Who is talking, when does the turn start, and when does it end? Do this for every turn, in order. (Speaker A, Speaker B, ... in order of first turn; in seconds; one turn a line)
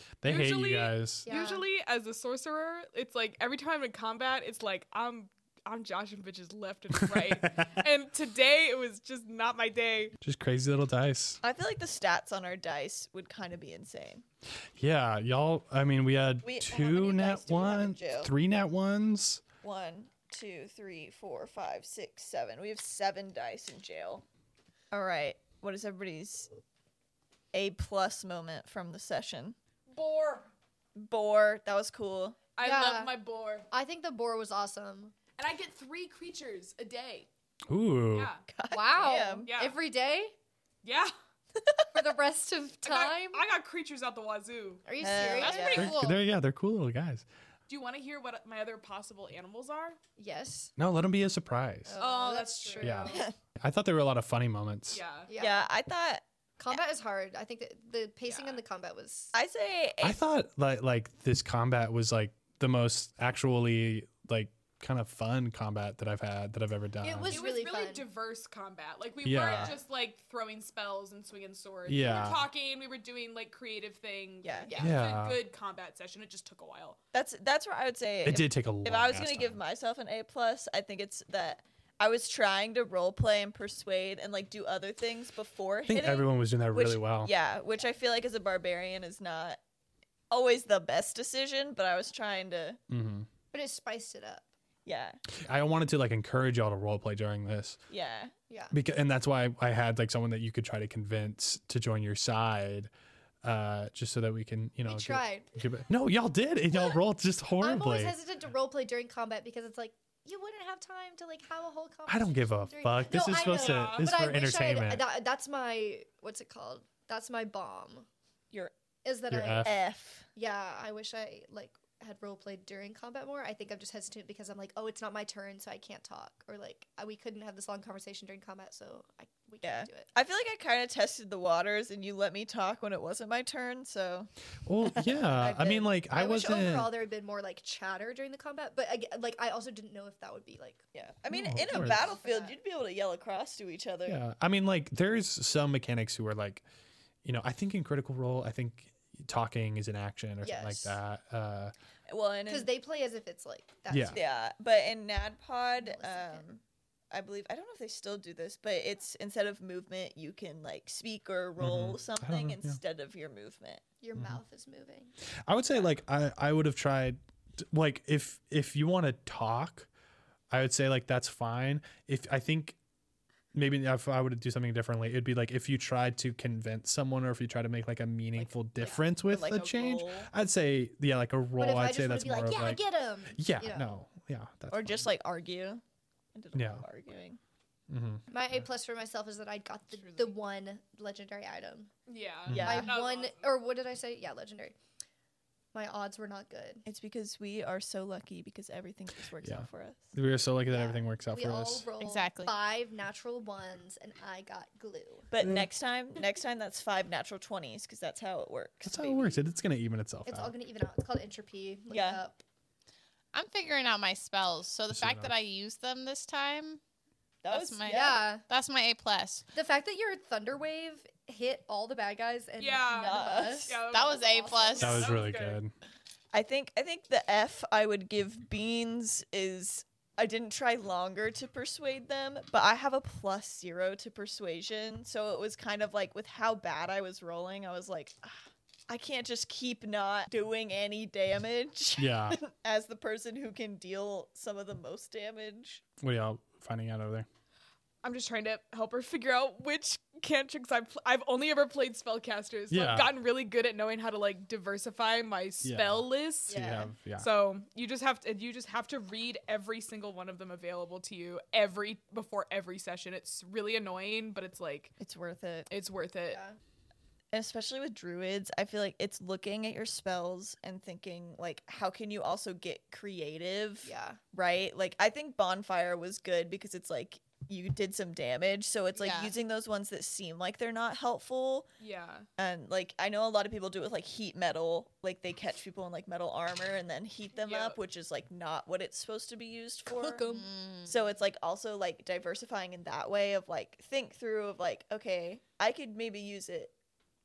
Speaker A: 0.2-1.3
Speaker B: 0.2-10.1
Speaker C: 1.3-1.7
Speaker A: 6.9-7.7
Speaker A: 10.2-11.4
Speaker D: 11.4-14.2
Speaker A: 14.8-19.4
Speaker D: 16.4-18.3
Speaker D: 19.6-24.2
Speaker D: 24.9-26.5
Speaker D: 27.5-29.6
Speaker B: 29.9-30.5
Speaker D: 31.0-32.5
Speaker B: 32.5-33.7
Speaker C: 32.6-33.1
Speaker C: 33.7-35.1
Speaker B: 35.4-37.3
Speaker A: 37.7-38.3
Speaker B: 38.1-38.4
Speaker D: 38.5-39.5
Speaker C: 38.7-40.4
Speaker B: 39.5-39.8
Speaker B: 40.8-41.1
Speaker C: 41.9-43.5
Speaker B: 42.8-46.0
Speaker C: 44.9-46.2
Speaker D: 45.0-46.0
Speaker A: 45.5-47.2
Speaker B: 47.7-50.0
Speaker C: 50.2-50.7
Speaker A: 50.8-52.0
Speaker C: 51.9-53.2
Speaker B: 52.0-53.0
Speaker A: 52.8-55.0
Speaker D: 53.1-53.4
Speaker B: 54.9-55.3
Speaker C: 55.3-55.7
Speaker D: 55.4-56.8
Speaker C: 56.6-59.3
Speaker B: 58.2-58.6
Speaker D: 59.3-60.2
Speaker A: 60.0-67.4
Speaker C: 67.0-68.1
Speaker B: 67.3-77.0
Speaker A: 69.2-69.8
Speaker D: 69.5-69.7
Speaker A: 71.8-72.5
Speaker D: 74.4-74.8
Speaker C: 74.7-75.0
Speaker A: 74.8-75.4
Speaker D: 77.1-89.6
Speaker A: 78.2-79.6
Speaker A: 85.9-87.3
Speaker D: 90.3-92.8
Speaker A: 92.9-93.3
Speaker C: 93.5-94.5
Speaker D: 94.8-95.2
Speaker A: 95.4-97.8
Speaker D: 97.9-98.3
Speaker A: 98.7-102.9
Speaker A: 103.4-108.2
Speaker C: 104.8-105.5
Speaker C: 107.6-118.1
Speaker A: 112.1-115.1
Speaker B: 113.6-114.1
Speaker C: 119.0-119.7
Speaker A: 119.3-119.7
Speaker D: 119.6-120.3
Speaker C: 120.3-130.1
Speaker D: 129.6-134.3
Speaker A: 134.7-136.9
Speaker D: 134.8-135.2
Speaker C: 135.3-142.6
Speaker D: 140.9-144.2
Speaker A: 141.3-142.0
Speaker A: 144.1-146.7
Speaker A: 147.2-151.7
Speaker C: 150.4-151.0
Speaker D: 152.1-152.7
Speaker C: 152.5-154.2
Speaker A: 153.9-154.2
Speaker D: 154.1-163.8
Speaker C: 155.8-156.5
Speaker A: 161.6-162.8
Speaker C: 164.0-165.1
Speaker A: 165.5-167.2
Speaker A: 167.7-169.9
Speaker A: 170.5-172.8
Speaker A: 173.5-182.8
Speaker D: 178.3-180.3
Speaker C: 181.6-184.0
Speaker A: 183.3-185.1
Speaker D: 184.7-185.8
Speaker D: 186.3-187.4
Speaker A: 186.5-186.8
Speaker A: 187.9-188.2
Speaker C: 188.3-191.9
Speaker B: 190.0-190.3
Speaker B: 192.1-193.5
Speaker A: 192.5-192.9
Speaker D: 192.5-193.0
Speaker C: 192.6-194.8
Speaker C: 195.7-196.8
Speaker D: 196.8-200.1
Speaker A: 199.4-201.9
Speaker C: 200.7-205.3
Speaker E: 202.0-202.5
Speaker D: 205.3-209.4
Speaker A: 208.9-210.5
Speaker C: 210.3-212.4
Speaker D: 211.9-212.2
Speaker E: 213.3-216.8
Speaker A: 214.9-215.3
Speaker D: 217.4-218.2
Speaker E: 217.5-219.4
Speaker C: 217.9-218.4
Speaker C: 219.5-223.8
Speaker B: 222.6-225.6
Speaker D: 222.9-223.9
Speaker E: 223.9-225.0
Speaker A: 224.8-225.7
Speaker D: 226.3-238.4
Speaker D: 238.9-245.8
Speaker A: 242.0-242.4
Speaker A: 246.0-247.3
Speaker B: 248.0-265.0
Speaker A: 252.7-253.1
Speaker A: 255.6-257.3
Speaker C: 256.5-256.9
Speaker D: 265.0-265.7
Speaker B: 265.7-266.4
Speaker C: 266.3-266.6
Speaker D: 267.3-281.7
Speaker C: 273.8-274.2
Speaker E: 278.9-279.3
Speaker B: 281.8-282.3
Speaker D: 282.4-290.3
Speaker B: 287.3-287.8
Speaker B: 289.9-290.4
Speaker E: 290.3-291.0
Speaker D: 290.9-296.7